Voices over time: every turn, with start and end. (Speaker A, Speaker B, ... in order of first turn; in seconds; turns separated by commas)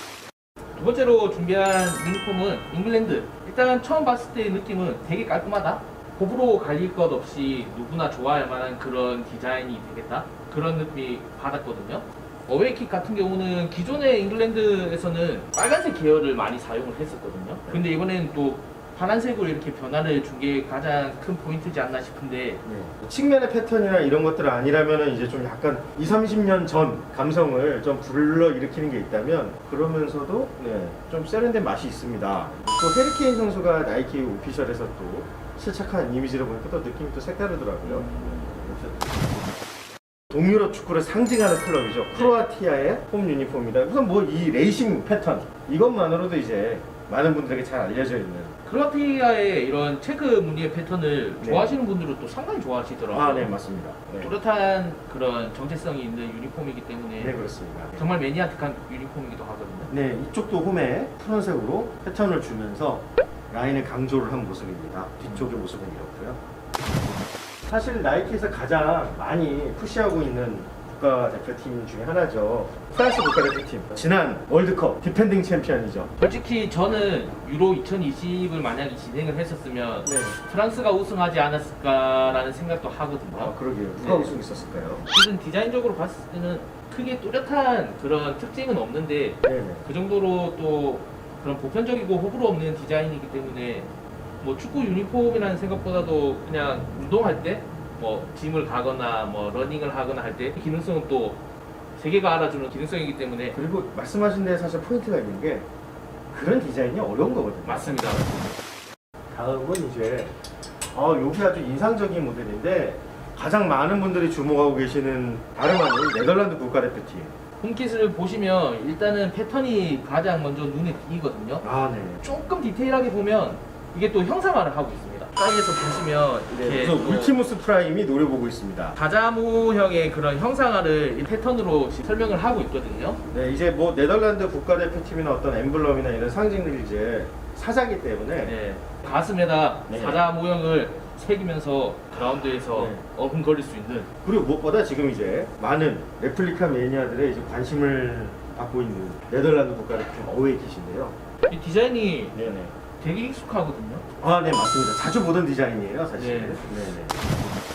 Speaker A: 0.8-22.6, Speaker B: 22.6-39.1, Speaker A: 37.8-38.5, Speaker B: 40.3-48.5, Speaker A: 42.1-42.4, Speaker A: 48.7-53.5, Speaker B: 51.4-51.8, Speaker B: 53.1-54.3, Speaker A: 54.2-57.4, Speaker B: 57.2-58.0, Speaker A: 58.0-59.9, Speaker B: 59.9-66.4, Speaker B: 67.7-76.1, Speaker A: 76.2-84.3, Speaker B: 80.0-80.4, Speaker B: 83.3-85.1, Speaker A: 85.1-93.9, Speaker B: 89.4-89.8, Speaker A: 94.4-101.4, Speaker A: 102.0-103.6, Speaker B: 103.5-105.7, Speaker B: 106.3-108.5, Speaker A: 107.7-108.3, Speaker B: 109.3-110.3, Speaker B: 110.9-117.3, Speaker A: 117.6-121.7, Speaker B: 121.6-122.2, Speaker A: 122.2-127.4, Speaker B: 126.5-129.0, Speaker A: 129.0-133.2, Speaker B: 133.3-138.5, Speaker A: 138.4-144.1, Speaker B: 139.9-140.2, Speaker B: 142.8-143.0, Speaker B: 144.2-151.2, Speaker A: 151.5-152.4, Speaker B: 152.3-152.7, Speaker A: 153.0-154.0, Speaker B: 154.2-157.1, Speaker A: 156.2-156.6